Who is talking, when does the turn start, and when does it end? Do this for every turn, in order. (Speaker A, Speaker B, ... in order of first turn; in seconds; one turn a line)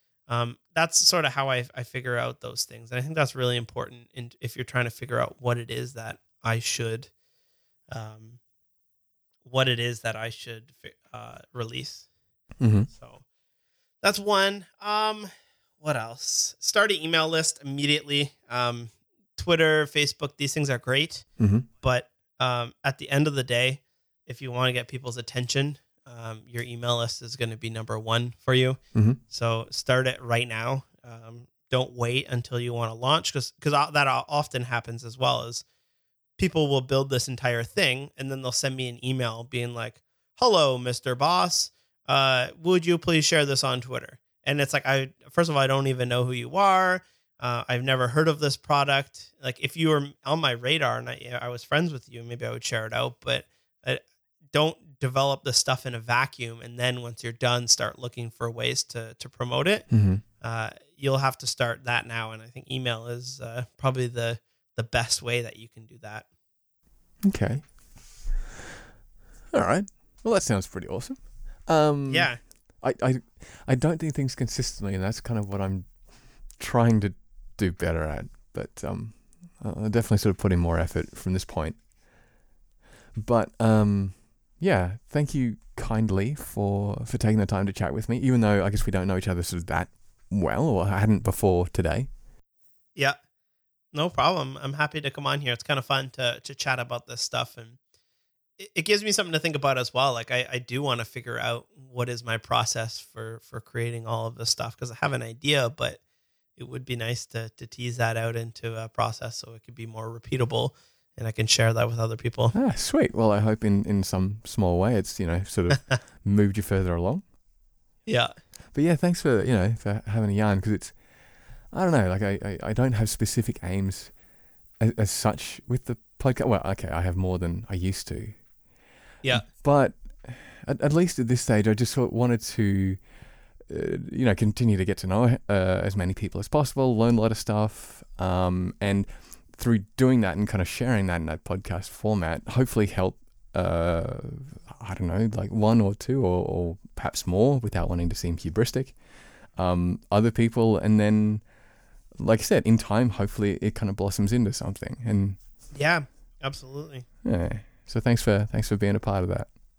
Speaker A: 0.3-7.1
Speaker A: 7.9-8.4
Speaker A: 9.4-12.1
Speaker B: 12.6-12.9
Speaker A: 12.9-13.2
Speaker A: 14.0-21.3
Speaker B: 21.4-21.7
Speaker A: 21.8-35.6
Speaker B: 28.9-29.2
Speaker A: 36.4-66.2
Speaker B: 59.9-60.2
Speaker B: 67.2-67.7
Speaker B: 69.5-72.3
Speaker A: 72.1-72.4
Speaker B: 72.8-75.9
Speaker B: 76.6-81.8
Speaker B: 83.2-92.1
Speaker A: 93.9-97.8
Speaker A: 98.6-106.0
Speaker A: 106.6-112.5
Speaker B: 112.5-117.2
Speaker A: 118.0-118.3
Speaker B: 118.7-120.9
Speaker B: 121.7-124.1
Speaker B: 124.8-128.3
Speaker B: 129.3-133.0
Speaker B: 133.7-148.9
Speaker B: 149.6-151.4
Speaker B: 152.2-155.4
Speaker A: 155.7-157.0
Speaker B: 157.2-159.5